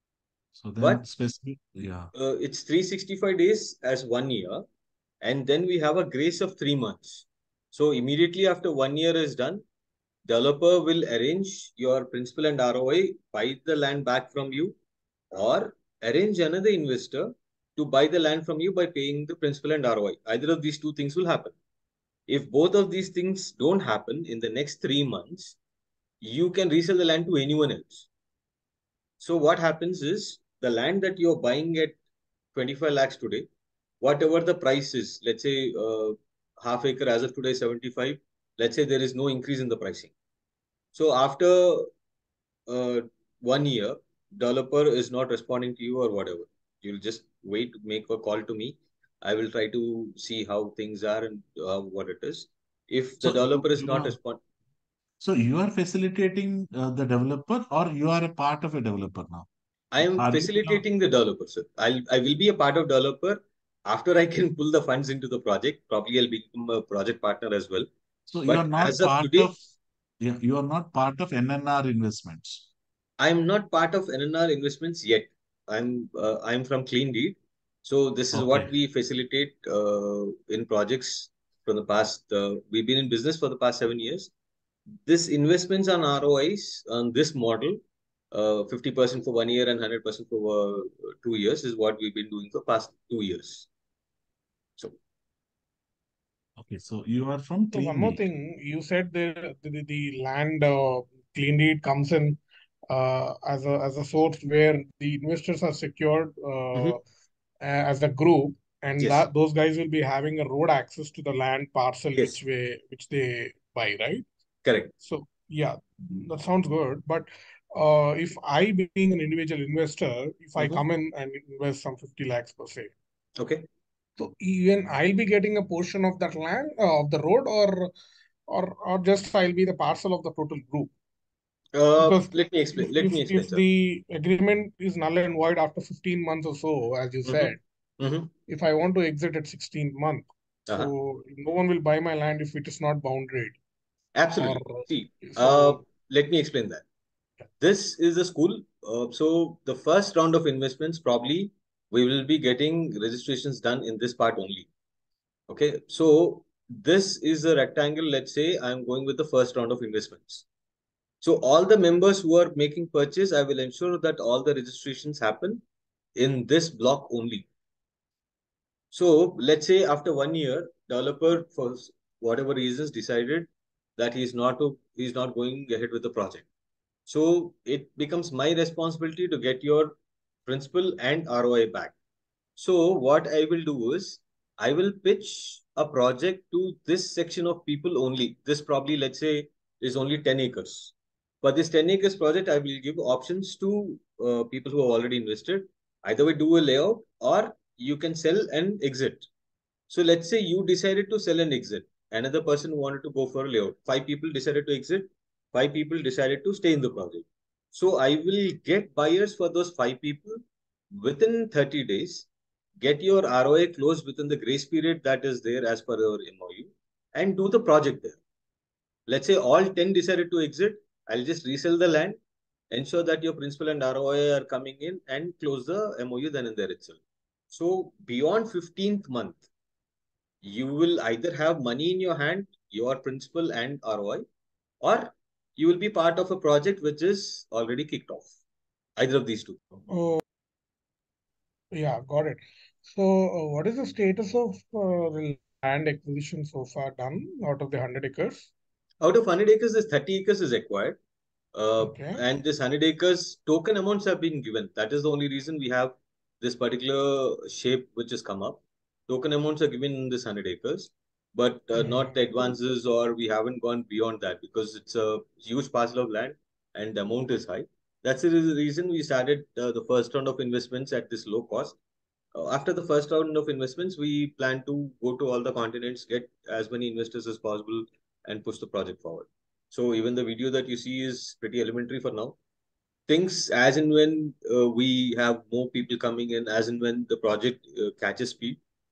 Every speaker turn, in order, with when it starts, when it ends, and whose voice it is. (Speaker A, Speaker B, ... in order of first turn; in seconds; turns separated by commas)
Speaker A: 0.5-2.1, Speaker B: 2.1-4.6, Speaker B: 5.2-9.6, Speaker B: 10.3-14.8, Speaker B: 15.3-21.6, Speaker B: 22.3-25.6, Speaker B: 26.2-28.1, Speaker B: 29.2-32.0, Speaker B: 32.5-33.5, Speaker B: 34.0-40.1, Speaker B: 40.9-41.9, Speaker B: 42.7-54.4, Speaker A: 53.2-54.1, Speaker A: 55.2-59.5, Speaker B: 59.9-67.9, Speaker A: 60.0-60.8, Speaker A: 68.3-69.6, Speaker B: 68.5-69.6, Speaker A: 70.2-72.7, Speaker B: 73.2-84.3, Speaker A: 78.3-78.7, Speaker B: 85.1-87.8, Speaker B: 88.3-93.7, Speaker A: 96.6-98.2, Speaker C: 97.7-107.0, Speaker C: 107.6-114.2, Speaker B: 109.0-109.2, Speaker B: 114.7-114.9, Speaker C: 115.0-122.9, Speaker B: 120.6-120.8, Speaker B: 123.4-123.7, Speaker C: 124.2-127.9, Speaker C: 128.5-130.9, Speaker B: 131.7-133.6, Speaker C: 132.0-137.6, Speaker B: 137.3-138.3, Speaker C: 138.5-143.6, Speaker B: 144.2-146.8, Speaker C: 144.4-145.8, Speaker B: 147.6-154.7, Speaker B: 155.5-160.4, Speaker B: 161.2-165.6, Speaker B: 166.2-167.5, Speaker B: 168.9-176.4, Speaker B: 177.1-181.9, Speaker B: 182.6-199.3, Speaker B: 199.9-210.4, Speaker B: 210.9-212.3, Speaker B: 212.8-218.2, Speaker B: 219.1-222.2, Speaker B: 222.7-227.0, Speaker B: 227.5-229.4, Speaker B: 230.4-234.3, Speaker B: 234.8-238.3, Speaker B: 239.0-239.6, Speaker C: 239.9-240.2, Speaker C: 241.7-248.5, Speaker B: 249.0-251.0, Speaker B: 251.6-271.8, Speaker C: 251.8-252.2, Speaker C: 261.8-262.1, Speaker B: 272.3-282.4, Speaker B: 283.1-288.6